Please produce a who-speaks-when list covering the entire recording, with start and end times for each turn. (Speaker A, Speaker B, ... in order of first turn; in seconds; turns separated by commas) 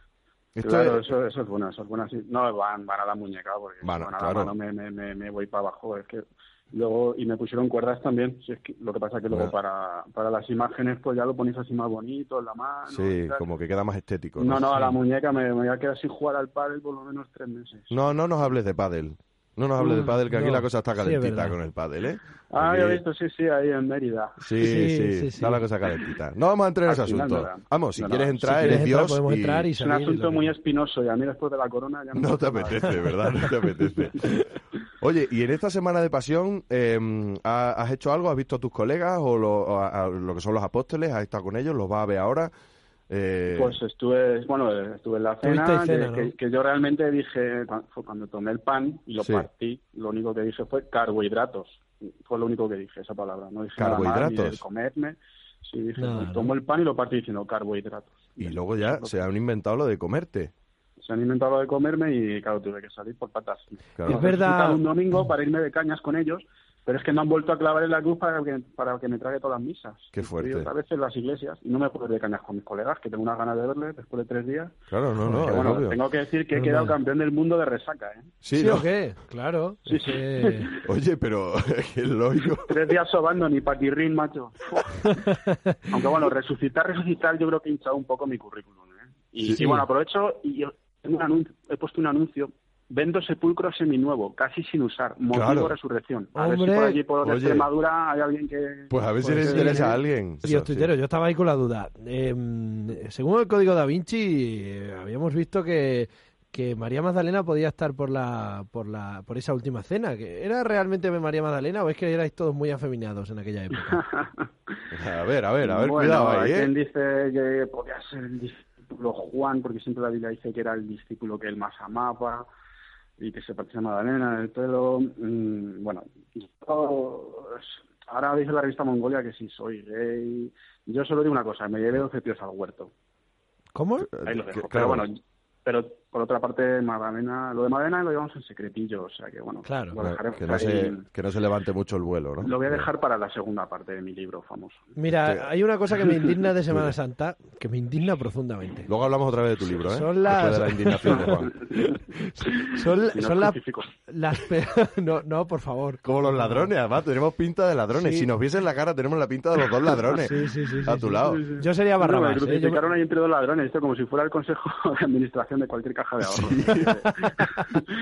Speaker A: 0.5-1.0, Speaker B: 0.6-13.4, Speaker A: 3.8-4.5, Speaker A: 12.9-14.7, Speaker B: 14.4-17.9, Speaker A: 17.9-23.0, Speaker C: 20.3-21.6, Speaker B: 22.5-24.5, Speaker A: 24.4-29.7, Speaker C: 24.6-25.6, Speaker B: 26.9-28.8, Speaker C: 28.4-30.5, Speaker B: 29.8-33.3, Speaker A: 32.1-34.4, Speaker A: 35.0-42.5, Speaker A: 43.1-43.8, Speaker B: 43.5-59.1, Speaker C: 45.4-46.3, Speaker A: 49.2-49.5, Speaker A: 53.8-54.6, Speaker C: 56.0-56.5, Speaker A: 58.4-60.5, Speaker B: 61.0-74.8, Speaker A: 64.0-64.3, Speaker C: 64.1-64.8, Speaker A: 70.1-70.7, Speaker A: 74.9-76.0, Speaker B: 75.3-78.3, Speaker C: 76.5-76.9, Speaker A: 78.4-78.9, Speaker C: 78.5-80.7, Speaker B: 79.9-80.8, Speaker A: 80.8-82.9, Speaker B: 82.6-85.2, Speaker B: 85.9-100.0, Speaker A: 89.4-89.7, Speaker C: 89.5-89.8, Speaker A: 95.3-95.7, Speaker C: 96.3-97.0, Speaker A: 97.2-97.7, Speaker A: 98.9-100.9, Speaker C: 99.2-114.0, Speaker B: 113.9-114.3, Speaker A: 114.9-116.7, Speaker B: 115.6-122.5, Speaker B: 123.2-132.9, Speaker C: 133.7-134.1, Speaker A: 134.1-135.1, Speaker B: 134.2-141.0, Speaker C: 139.6-140.0, Speaker A: 140.0-142.9, Speaker B: 142.4-144.9, Speaker C: 144.9-148.9, Speaker A: 145.1-145.5, Speaker A: 146.7-146.9, Speaker A: 148.9-151.6, Speaker C: 149.9-156.7, Speaker B: 153.1-153.9, Speaker A: 156.0-161.4, Speaker C: 157.9-158.3, Speaker C: 160.2-162.8, Speaker B: 161.2-167.9, Speaker A: 166.2-167.0, Speaker C: 167.0-167.5